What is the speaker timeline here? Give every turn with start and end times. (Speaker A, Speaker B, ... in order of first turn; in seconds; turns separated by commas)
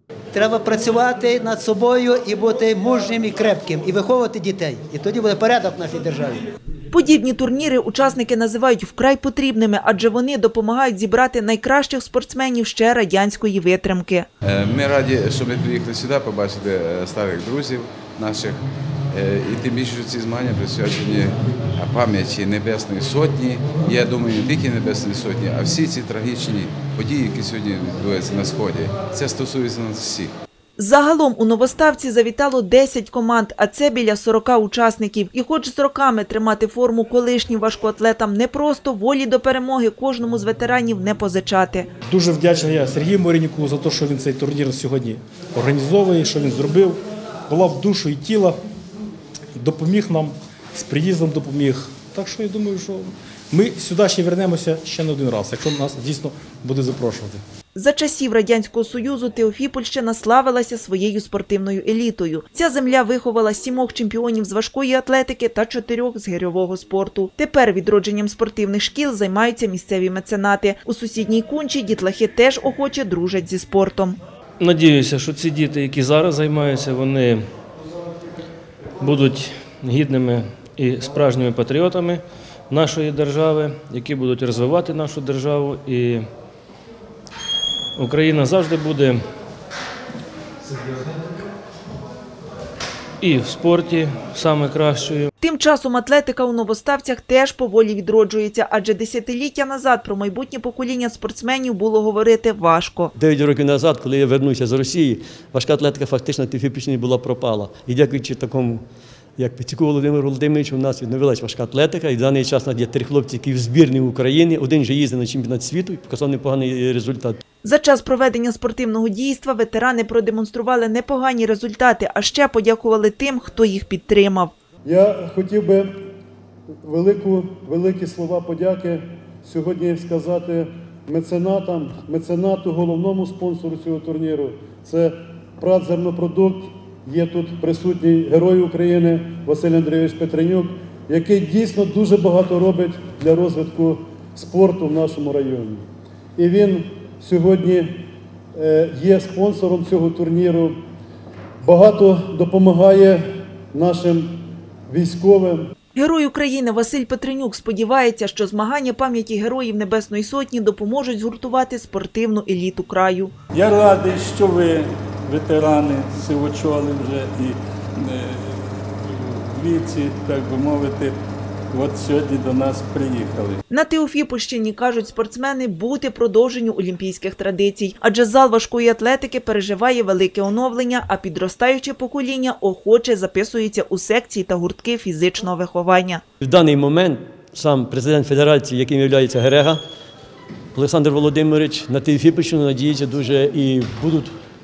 Speaker A: 0.3-6.5, Speaker B: 6.9-14.3, Speaker C: 14.4-30.3, Speaker B: 30.8-41.9, Speaker D: 42.1-48.6, Speaker D: 49.5-57.4, Speaker B: 57.7-74.2, Speaker E: 74.6-77.5, Speaker E: 79.0-86.2, Speaker E: 88.0-89.2, Speaker E: 93.2-95.3, Speaker B: 95.4-103.1, Speaker F: 103.2-108.8, Speaker F: 109.4-117.4, Speaker B: 117.6-124.5, Speaker G: 124.9-125.9, Speaker G: 126.8-145.8, Speaker G: 146.4-148.0, Speaker G: 148.5-150.8, Speaker G: 151.6-154.4, Speaker G: 154.9-155.7, Speaker B: 155.9-163.3, Speaker H: 163.5-171.2, Speaker H: 171.7-173.6, Speaker B: 173.7-186.2, Speaker F: 186.4-189.8, Speaker F: 190.7-194.3